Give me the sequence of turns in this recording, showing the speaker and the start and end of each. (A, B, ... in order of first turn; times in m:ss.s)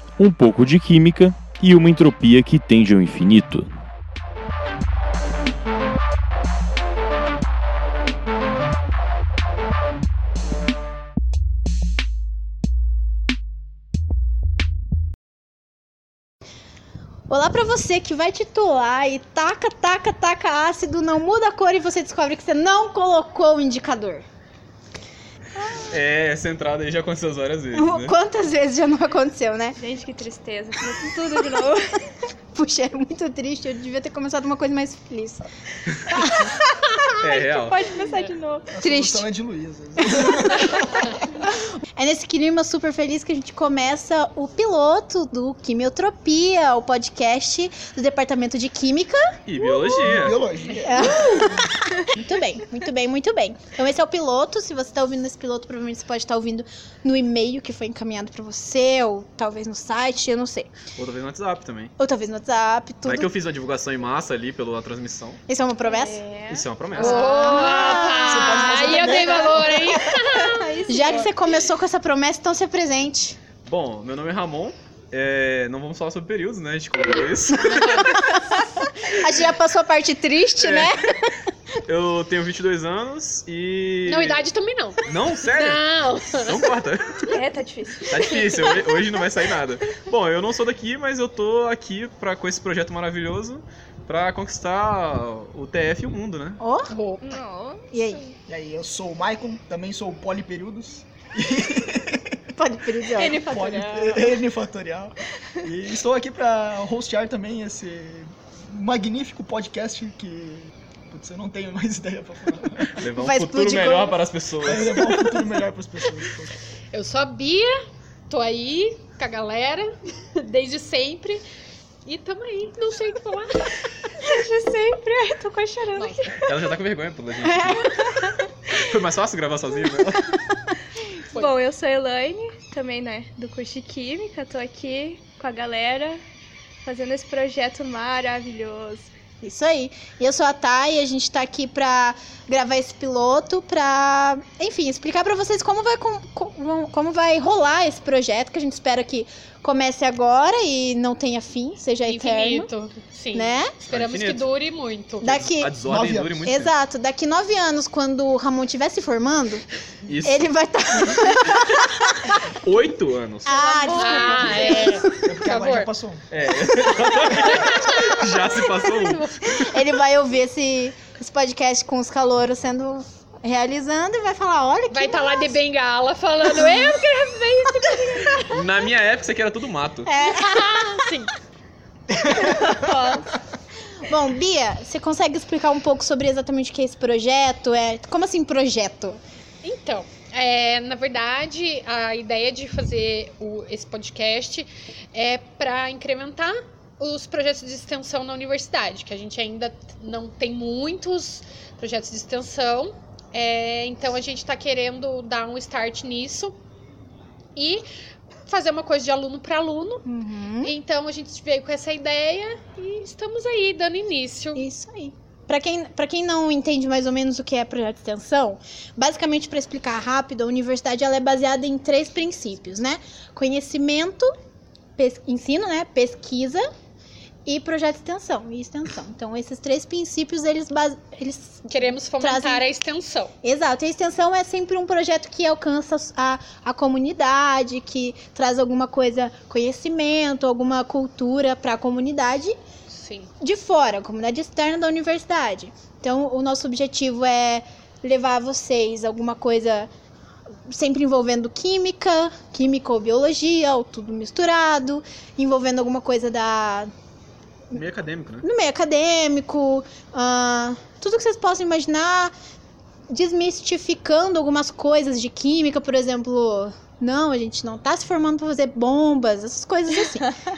0:00.2-0:03.8 A
0:17.3-0:24.2 B
0:25.6-0:26.0 C
0:25.9-0:28.1 D
0:27.7-0:29.8 B
0:29.8-0:32.0 C
0:32.5-0:35.4 B
0:36.2-0:37.0 B
0:37.2-0:37.8 D
0:37.2-0:38.7 C
0:38.7-0:41.2 E
0:38.8-0:39.3 B
0:41.4-0:50.1 B
0:49.4-0:50.4 D
0:50.0-0:51.5 E
0:50.8-1:00.7 B
1:01.0-1:01.9 D
1:02.0-1:03.3 B
1:03.0-1:05.4 D
1:05.5-1:06.2 B
1:05.8-1:07.6 C
1:06.5-1:07.3 D
1:07.0-1:10.7 F
1:07.0-1:09.3 B
1:07.9-1:10.3 E
1:10.4-1:11.4 C
1:10.9-1:13.4 B
1:13.6-1:18.0 D
1:17.6-1:18.1 F
1:17.7-1:21.4 B
1:20.6-1:21.0 D
1:21.8-1:24.4 D
1:24.0-1:26.6 F
1:25.0-1:27.3 D
1:27.3-1:28.9 C
1:28.1-1:36.6 D
1:36.6-1:36.9 B
1:36.9-1:37.4 F
1:37.2-1:38.3 C
1:37.9-1:38.2 B
1:38.5-1:42.4 E
1:42.6-1:43.4 B
1:43.2-1:44.4 C
1:43.3-1:53.0 E
1:52.9-1:55.4 D
1:53.2-1:54.2 B
1:54.6-1:56.5 E
1:56.9-1:57.7 F
1:58.3-2:01.4 F
2:02.0-2:03.9 F
2:04.2-2:06.4 C
2:06.0-2:06.2 F
2:06.4-2:10.4 D
2:11.3-2:16.2 C
2:16.8-2:19.1 C
2:19.4-2:32.7 B
2:32.0-2:35.4 F
2:33.3-2:33.7 B
2:33.9-2:34.5 D
2:35.2-2:35.8 B
2:35.2-2:36.7 D
2:35.8-2:36.5 E
2:36.4-2:39.6 B
2:40.1-2:40.5 D
2:40.2-2:42.4 B
2:42.6-2:43.6 D
2:43.4-2:45.2 B
2:43.5-2:44.9 C
2:43.8-2:45.9 F
2:45.2-2:46.2 E
2:46.3-2:49.7 D
2:47.2-2:48.2 F
2:48.8-2:49.3 F
2:49.5-2:55.6 B
2:54.9-2:58.6 F
2:56.5-2:56.8 B
2:58.5-3:00.1 D
3:00.0-3:00.9 B
3:00.2-3:01.3 F
3:02.1-3:02.9 E
3:02.3-3:03.2 C
3:04.0-3:09.2 B
3:09.6-3:26.5 F
3:27.5-3:27.8 F
3:28.4-3:30.0 F
3:30.0-3:30.7 B
3:30.6-3:34.6 F
3:34.5-3:44.3 B
3:45.0-3:46.6 B
3:47.4-3:52.8 B
3:51.7-3:53.3 F
3:53.4-4:02.6 B
4:02.9-4:03.3 F
4:03.4-4:09.9 B
4:10.7-4:16.9 B
4:17.7-4:18.5 D
4:18.4-4:22.3 B
4:23.1-4:30.4 B